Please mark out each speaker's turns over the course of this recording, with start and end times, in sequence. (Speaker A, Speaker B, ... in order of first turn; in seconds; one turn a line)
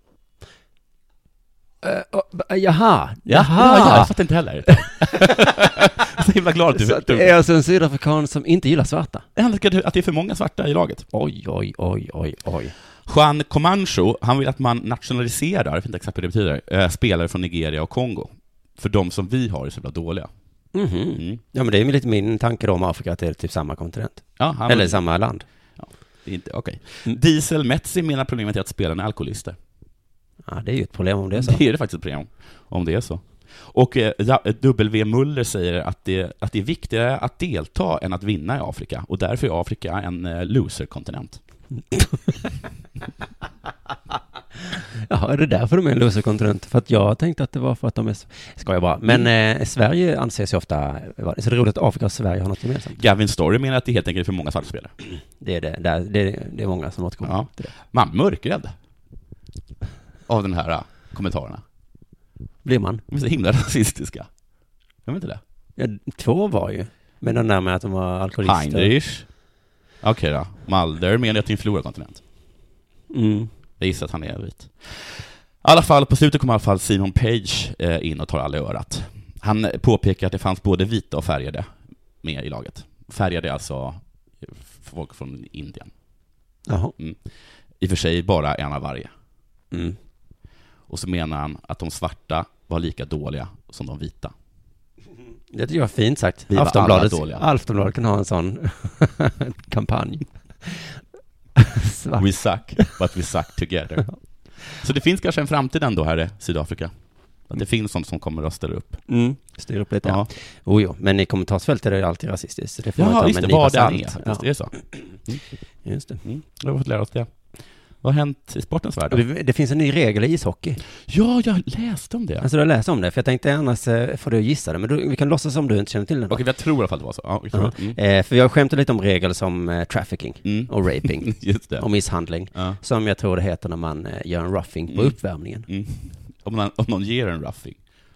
Speaker A: 1.8-4.1
Speaker B: 3.3-7.3
Speaker A: 4.7-6.0
Speaker A: 6.7-9.2
Speaker B: 9.3-11.0
Speaker A: 11.1-12.7
Speaker B: 13.1-20.3
Speaker A: 20.7-25.4
Speaker B: 24.4-25.0
Speaker B: 25.8-29.6
Speaker A: 30.5-31.6
Speaker B: 31.3-41.4
Speaker A: 45.0-53.0
Speaker B: 53.0-54.9
Speaker A: 55.4-57.7
Speaker B: 57.2-58.7
Speaker B: 60.3-61.6
Speaker A: 62.6-63.0
Speaker B: 63.1-64.3
Speaker B: 65.0-65.4
Speaker A: 65.8-68.9
Speaker B: 68.4-69.3
Speaker B: 70.0-72.2
Speaker A: 73.1-73.5
Speaker B: 73.8-81.7
Speaker B: 82.2-85.9
Speaker A: 86.7-86.9
Speaker B: 87.8-89.1
Speaker A: 89.7-90.0
Speaker B: 90.9-94.3
Speaker A: 95.5-101.0
Speaker B: 96.5-97.4
Speaker A: 101.5-103.0
Speaker B: 102.2-104.2
Speaker B: 104.7-106.9
Speaker B: 107.4-109.0
Speaker A: 109.1-115.2
Speaker B: 110.0-110.3
Speaker B: 113.0-114.7
Speaker A: 115.8-116.2
Speaker B: 116.2-117.4
Speaker B: 118.0-119.2
Speaker A: 119.1-120.8
Speaker B: 121.0-122.5
Speaker A: 122.4-126.4
Speaker B: 126.3-128.0
Speaker A: 127.5-135.7
Speaker B: 130.4-131.8
Speaker B: 132.5-132.8
Speaker B: 134.9-137.8